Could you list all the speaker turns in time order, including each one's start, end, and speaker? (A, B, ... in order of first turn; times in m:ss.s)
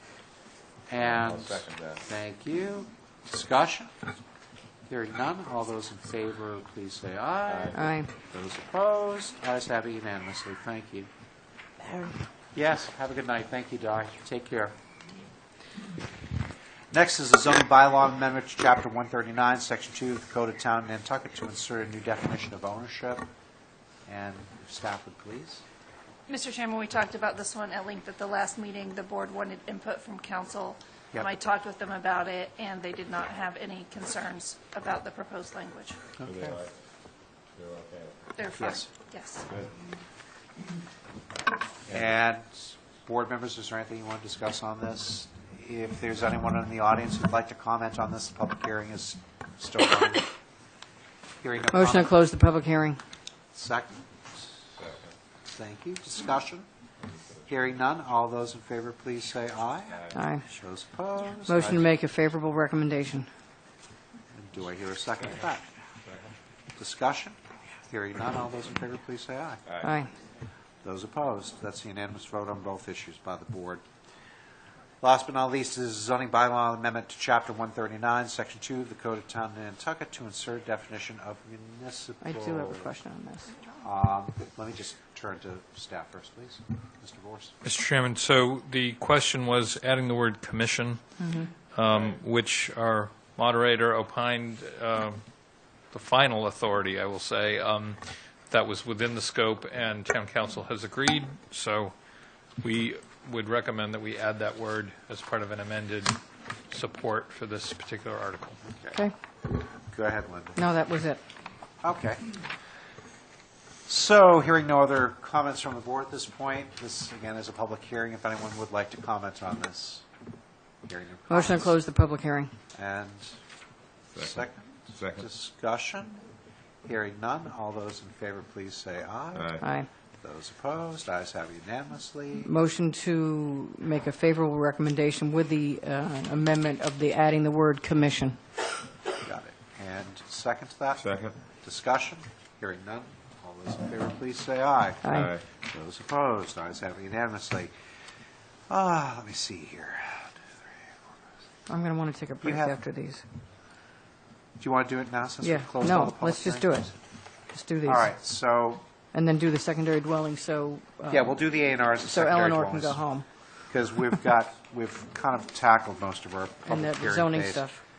0:00.9-0:03.9 A
0:01.0-0:02.0 B
0:04.9-0:11.1 A
0:07.5-0:07.8 B
0:07.7-0:08.1 C
0:11.8-0:12.2 C
0:12.5-0:14.8 A
0:16.9-0:23.2 A
0:24.0-0:25.6 A
0:26.3-0:36.0 D
0:36.2-0:36.7 B
0:37.5-0:38.2 B
0:38.4-0:39.4 D
0:38.5-0:38.9 A
0:39.5-0:39.7 B
0:41.9-0:50.3 A
0:51.4-0:52.2 A
0:51.7-0:53.0 C
0:53.5-0:54.4 A
0:54.8-0:55.1 B
0:55.5-0:56.7 A
0:57.4-1:01.9 A
1:00.1-1:00.4 C
1:01.4-1:03.3 C
1:04.3-1:05.6 A
1:06.0-1:06.3 B
1:06.8-1:07.4 A
1:07.9-1:09.6 A
1:09.8-1:10.1 C
1:10.8-1:13.8 A
1:15.0-1:22.9 A
1:22.2-1:23.5 C
1:23.8-1:27.6 A
1:27.6-1:31.1 E
1:31.2-1:31.5 C
1:31.7-1:41.9 E
1:42.6-1:46.2 E
1:46.7-1:48.6 E
1:48.7-1:49.0 A
1:49.9-1:50.6 A
1:50.6-1:51.2 C
1:51.8-1:52.2 A
1:53.9-2:00.0 A
2:00.8-2:01.8 A
2:01.3-2:02.5 C
2:02.7-2:03.4 A
2:04.1-2:05.3 B
2:04.2-2:06.2 A
2:06.8-2:09.6 A
2:09.3-2:09.6 B
2:09.6-2:09.9 C
2:10.2-2:12.5 A
2:12.4-2:18.4 C
2:19.2-2:27.7 A
2:21.0-2:21.4 B
2:25.0-2:25.3 C
2:25.1-2:25.4 B
2:28.7-2:30.3 A
2:31.7-2:33.2 C
2:32.4-2:32.8 A
2:34.6-2:36.8 A
2:35.4-2:36.9 C
2:37.5-2:38.1 C
2:37.8-2:38.8 A
2:39.1-2:41.4 C
2:41.1-2:43.0 A
2:42.0-2:43.3 C
2:43.7-2:47.6 A
2:46.6-2:47.8 C